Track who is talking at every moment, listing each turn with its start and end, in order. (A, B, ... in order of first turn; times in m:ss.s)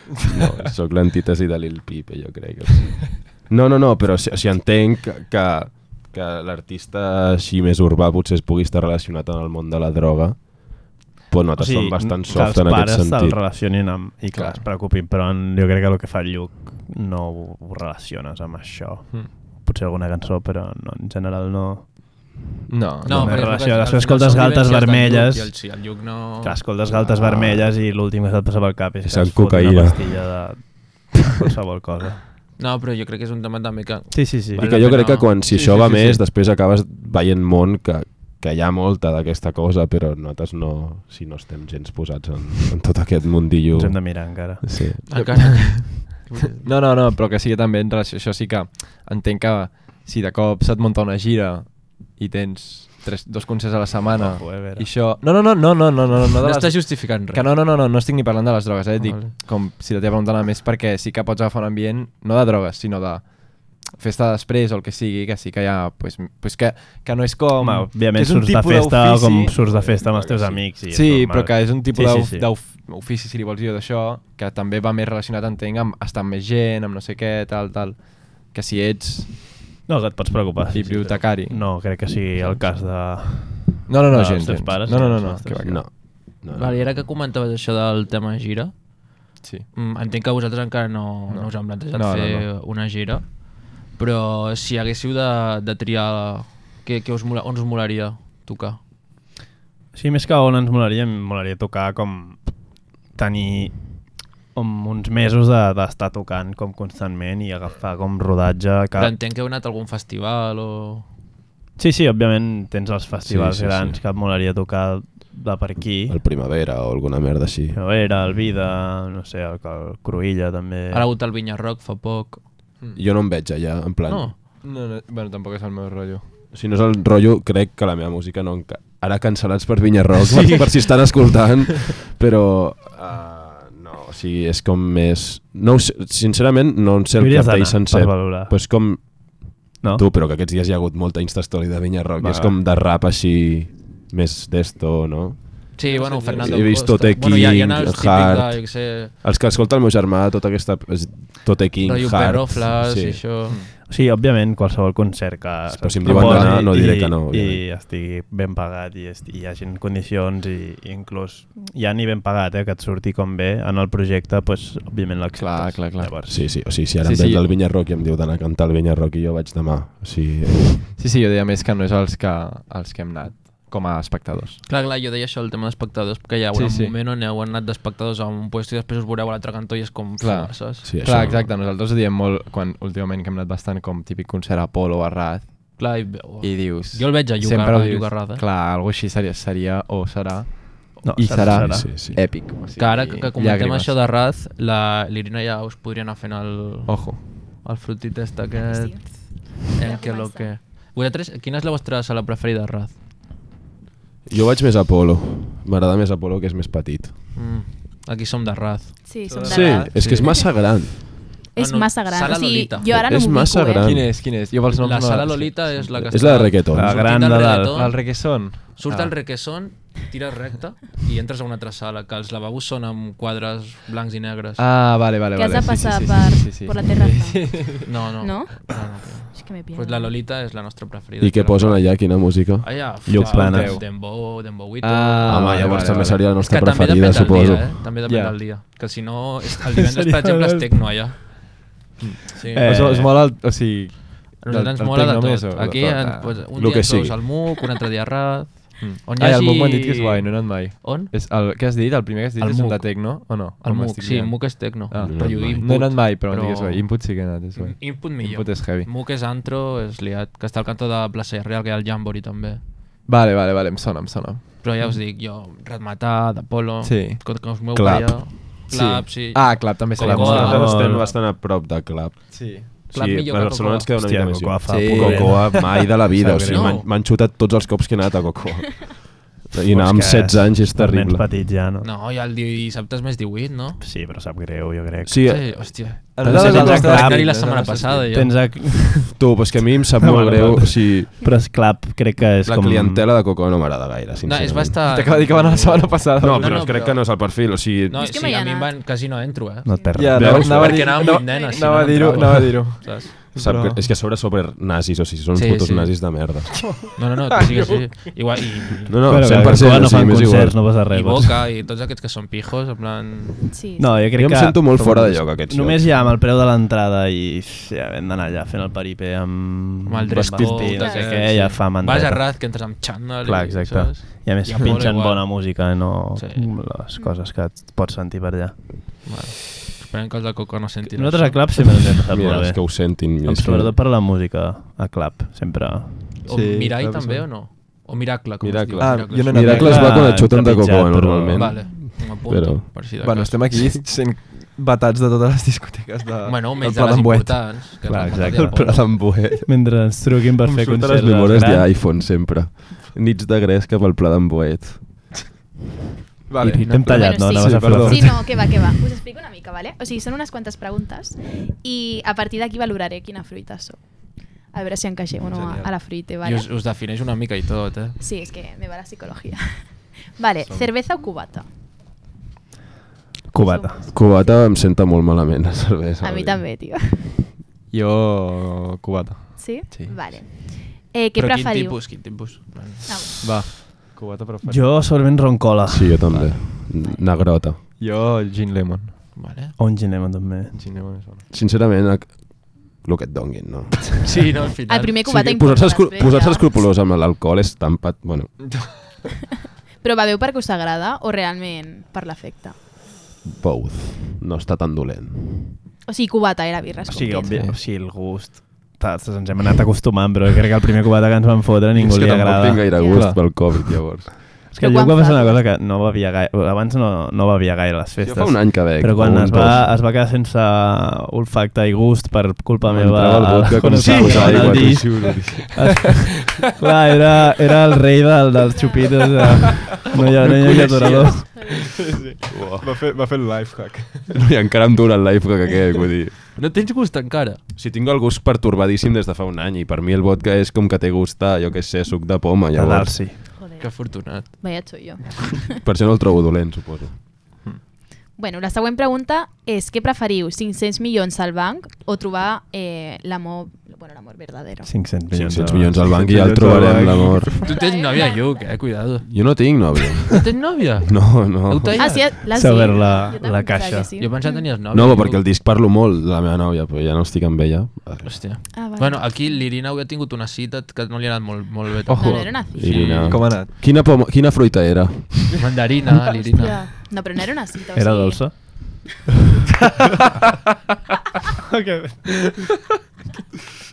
0:00.2-0:13.4 A
0:11.6-0:22.3 B
0:14.3-0:14.6 C
0:22.7-0:23.4 C
0:23.0-0:25.9 B
0:23.0-0:26.6 D
0:26.4-0:32.2 B
0:26.9-0:27.7 A
0:29.0-0:30.2 A
0:32.6-0:35.6 D
0:34.1-0:34.6 B
0:34.5-0:45.5 A
0:35.5-0:36.2 C
0:43.7-0:44.7 B
0:45.1-0:46.6 D
0:45.1-1:09.6 C
0:54.0-0:54.9 B
0:56.4-0:57.5 D
0:59.0-0:59.3 D
1:07.6-1:12.5 B
1:09.6-1:10.7 A
1:10.9-1:19.4 C
1:19.9-1:25.6 B
1:20.7-1:21.7 C
1:23.9-1:25.8 C
1:25.6-1:27.0 A
1:26.3-1:28.9 D
1:29.7-1:38.8 D
1:31.3-1:32.5 C
1:39.9-1:49.1 B
1:49.0-1:51.0 D
1:51.8-1:56.2 B
1:53.2-1:54.0 A
1:56.1-1:57.8 A
1:57.7-2:01.1 B
2:00.9-2:02.4 D
2:02.9-2:04.3 A
2:04.0-2:04.4 D
2:04.6-2:06.2 C
2:06.5-2:25.8 A
2:17.2-2:19.1 B
2:19.8-2:20.1 B
2:22.2-2:22.5 B
2:25.8-2:29.1 D
2:25.8-2:26.8 C
2:26.3-2:33.2 A
2:31.8-2:33.6 D
2:33.7-2:46.4 B
2:35.7-2:37.6 A
2:36.0-2:36.7 C
2:45.4-2:47.4 C
2:46.2-2:50.9 A
2:51.0-2:54.6 C
2:54.6-3:00.8 D
2:56.5-2:56.9 C
3:00.2-3:13.9 C
3:00.8-3:01.5 A
3:05.8-3:08.4 D
3:11.0-3:11.9 B
3:11.4-3:12.2 A
3:12.8-3:23.0 D
3:16.9-3:17.3 C
3:18.6-3:20.6 E
3:24.2-3:27.1 A
3:27.3-3:29.4 D
3:29.0-3:30.5 E
3:29.2-3:30.2 C
3:29.4-3:31.1 A
3:29.9-3:30.6 D
3:31.5-3:34.0 E
3:31.6-3:32.9 D
3:32.9-3:34.1 A
3:33.8-3:36.3 C
3:34.4-3:44.6 D
3:36.1-3:37.0 A
3:36.7-3:37.8 B
3:37.7-3:39.1 C
3:44.6-3:48.1 C
3:45.3-3:50.2 E
3:47.8-4:01.3 D
3:51.2-3:52.9 A
3:53.0-3:53.8 B
3:53.2-3:54.1 C
3:54.8-3:56.2 C
3:55.2-3:57.9 A
3:58.0-3:58.4 C
3:59.8-4:00.7 B
4:02.0-4:06.4 C
4:02.4-4:02.6 D
4:02.5-4:03.2 B
4:04.4-4:11.1 D
4:06.5-4:07.3 A
4:08.8-4:18.9 C
4:12.4-4:22.6 D
4:15.0-4:15.7 A
4:23.0-4:25.0 C
4:24.6-4:30.8 D
4:26.8-4:27.2 C
4:27.7-4:28.4 A
4:28.7-4:31.2 C
4:30.0-4:31.1 B
4:30.0-4:41.3 A
4:32.3-4:32.7 C
4:32.9-4:33.9 D
4:34.0-4:36.8 B
4:34.7-4:35.7 C
4:36.5-4:36.8 D
4:39.7-4:41.9 B
4:41.8-4:43.8 D
4:43.8-4:45.6 B
4:45.0-4:46.1 A
4:45.2-4:48.4 D
4:46.1-4:48.1 C
4:46.2-4:47.5 B
4:48.1-4:49.4 B
4:49.1-4:51.1 A
4:50.0-4:53.1 B
4:52.4-4:54.8 A
4:54.2-5:03.1 D
4:54.9-4:56.9 C
4:56.2-4:58.1 A
4:57.9-4:58.8 E
4:59.6-5:00.4 B
4:59.7-4:59.9 E
4:59.9-5:03.8 C
5:00.1-5:01.1 A
5:01.2-5:01.8 E
5:03.3-5:06.8 A
5:05.3-5:06.3 D
5:06.9-5:09.5 D
5:07.3-5:08.1 C
5:08.9-5:10.8 A
5:09.0-5:11.3 B
5:10.9-5:13.5 D
5:13.5-5:14.1 E
5:13.8-5:29.0 B
5:14.1-5:16.0 A
5:19.8-5:25.6 D
5:20.6-5:21.3 E
5:26.2-5:26.6 D
5:26.9-5:27.2 E
5:29.0-5:31.7 D
5:30.9-5:36.1 B
5:32.1-5:33.8 A
5:36.2-5:39.9 D
5:36.3-5:37.3 C
5:38.4-5:42.8 A
5:38.8-5:40.2 C
5:39.4-5:41.6 B
5:41.3-5:43.6 D
5:43.0-5:48.4 C
5:43.5-5:43.8 A
5:46.2-5:49.0 D
5:47.9-5:51.7 B
5:48.4-5:49.5 A
5:50.4-5:55.1 A
5:56.3-5:58.2 C
5:56.4-5:56.9 D
5:56.5-5:58.2 B
5:56.8-6:06.5 E
6:05.3-6:05.7 C
6:06.2-6:08.0 D
6:08.0-6:11.4 E
6:10.4-6:10.7 C
6:13.3-6:13.8 B
6:13.4-6:14.5 E
6:13.9-6:16.7 A
6:16.0-6:17.1 E
6:17.7-6:20.0 C
6:19.4-6:22.1 E
6:21.2-6:22.9 D
6:22.8-6:23.2 E
6:23.2-6:24.9 C
6:24.4-6:26.0 B
6:25.7-6:27.6 A
6:26.1-6:26.4 C
6:27.8-6:29.1 C
6:29.2-6:29.5 D
6:29.6-6:30.6 B
6:30.5-6:31.2 C
6:31.3-6:34.0 A
6:34.0-6:35.0 D
6:34.7-6:36.7 E
6:35.0-6:38.8 A
6:39.8-6:42.6 E
6:43.2-6:45.6 A
6:45.9-6:47.4 E
6:46.9-6:52.8 B
6:51.7-6:54.2 A
6:52.7-6:53.1 E
6:52.9-6:53.2 C
6:54.5-7:11.2 B
6:54.6-6:55.4 E
6:58.0-6:59.7 A
7:02.6-7:05.9 A
7:03.8-7:04.3 D
7:04.0-7:05.0 C
7:08.5-7:09.0 E
7:09.9-7:14.2 C
7:11.3-7:11.6 E
7:12.3-7:12.7 A
7:14.1-7:16.2 A
7:16.4-7:17.4 D
7:17.5-7:23.1 A
7:22.5-7:23.2 B
7:23.4-7:25.6 E
7:23.6-7:24.8 D
7:25.6-7:27.0 A
7:28.1-7:34.8 E
7:34.6-7:37.2 B
7:35.1-7:37.4 A
7:36.1-7:37.1 C
7:37.2-7:38.7 E
7:37.4-7:39.6 D
7:39.0-7:41.9 A
7:40.1-7:42.1 D
7:41.7-7:44.6 E
7:42.3-7:43.9 B
7:44.0-7:45.2 D
7:44.7-7:48.5 A
7:48.0-7:53.2 D
7:48.5-7:49.5 E
7:51.9-7:53.5 C
7:51.9-7:53.0 E
7:52.5-7:55.4 A
7:55.4-7:56.6 D
7:56.0-7:58.5 E
7:57.8-7:58.8 B
8:01.5-8:02.2 B